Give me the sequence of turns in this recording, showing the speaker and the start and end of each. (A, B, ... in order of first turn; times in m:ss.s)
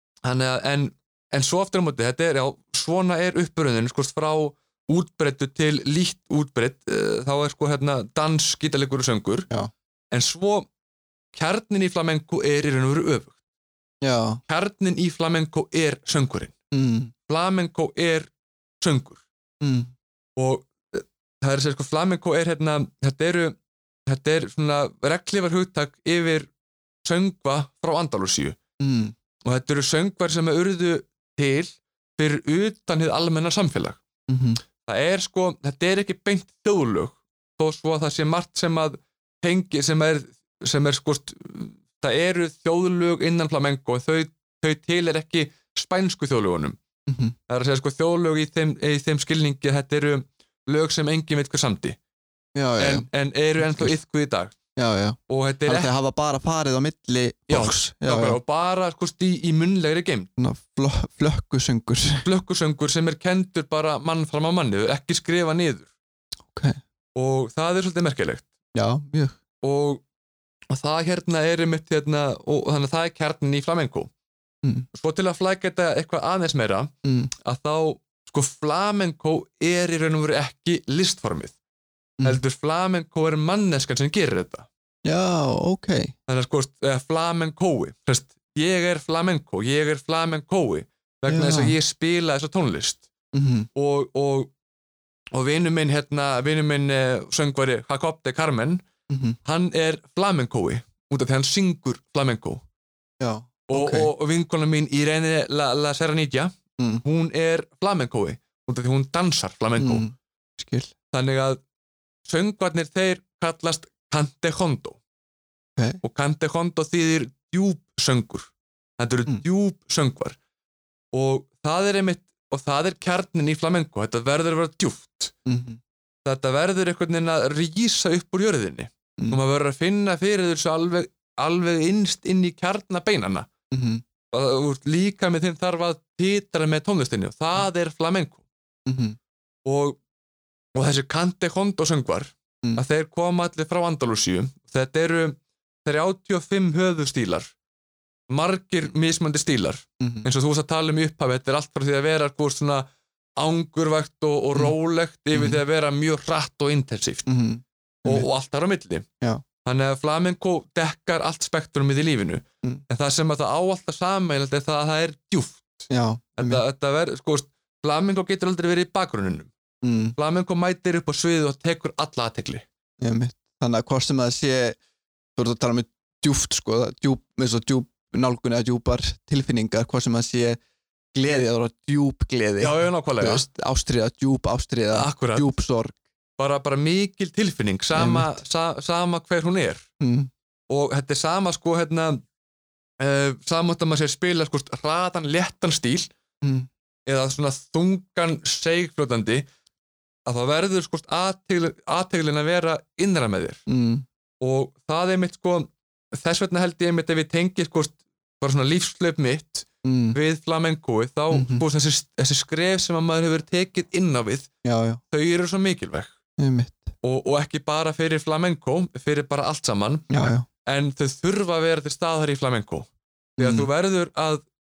0:00.2-0:09.5 A
0:10.1-0:10.7 A
0:11.3-0:13.4 A
0:14.0-0:14.4 B
0:14.5-0:16.5 A
0:16.7-0:17.1 B
0:17.3-0:18.3 A
0:18.8-0:19.2 A
0:19.6-0:19.9 B
0:20.4-0:26.5 A
0:27.0-0:28.6 A
0:28.8-0:29.1 B
0:29.4-0:34.0 A
0:34.3-0:34.6 B
0:34.8-0:46.8 A
0:47.1-0:47.4 B
0:47.5-0:52.0 A
0:52.5-0:53.1 B
0:52.8-0:54.6 A
0:53.6-0:53.9 B
0:54.8-0:58.4 B
0:55.3-0:55.9 A
0:57.5-1:00.3 A
1:00.4-1:02.2 B
1:02.2-1:05.9 A
1:06.5-1:06.8 B
1:07.1-1:08.4 A
1:08.7-1:09.4 B
1:09.6-1:10.0 A
1:10.7-1:14.1 A
1:14.9-1:16.9 A
1:17.0-1:17.3 B
1:17.4-1:21.5 A
1:22.2-1:24.7 A
1:25.0-1:26.1 B
1:26.3-1:33.1 A
1:31.3-1:31.7 B
1:33.3-1:33.7 B
1:33.7-1:34.5 A
1:35.3-1:38.8 A
1:39.1-1:39.4 B
1:39.4-1:42.6 A
1:43.2-1:44.1 B
1:43.7-1:50.1 A
1:46.8-1:47.0 B
1:49.8-1:50.9 B
1:51.1-1:51.6 A
1:52.2-1:55.0 A
1:56.0-2:00.4 A
2:01.1-2:05.3 A
2:05.4-2:05.8 B
2:06.2-2:13.5 A
2:13.7-2:14.0 B
2:14.3-2:18.4 A
2:18.8-2:19.2 B
2:19.6-2:20.0 A
2:20.7-2:27.5 A
2:28.3-2:37.3 A
2:30.0-2:30.3 B
2:35.3-2:35.6 B
2:37.3-2:38.3 B
2:38.0-2:39.1 A
2:39.6-2:49.5 A
2:45.9-2:46.6 B
2:49.8-2:50.2 B
2:50.2-2:52.6 A
2:53.0-2:54.8 B
2:55.4-3:00.6 B
3:01.1-3:06.0 B
3:02.6-3:03.4 A
3:04.9-3:05.5 A
3:06.4-3:09.8 A
3:07.9-3:08.4 B
3:10.0-3:10.3 B
3:10.7-3:12.2 A
3:13.0-3:16.1 A
3:16.4-3:16.7 B
3:17.1-3:19.4 A
3:20.2-3:23.6 A
3:23.7-3:24.0 B
3:24.4-3:34.5 A
3:29.8-3:30.2 B
3:31.3-3:31.6 B
3:34.6-3:35.0 B
3:35.1-3:36.1 A
3:36.4-3:36.9 B
3:37.0-3:40.1 A
3:40.1-3:40.4 B
3:40.6-3:44.4 A
3:43.4-3:43.7 B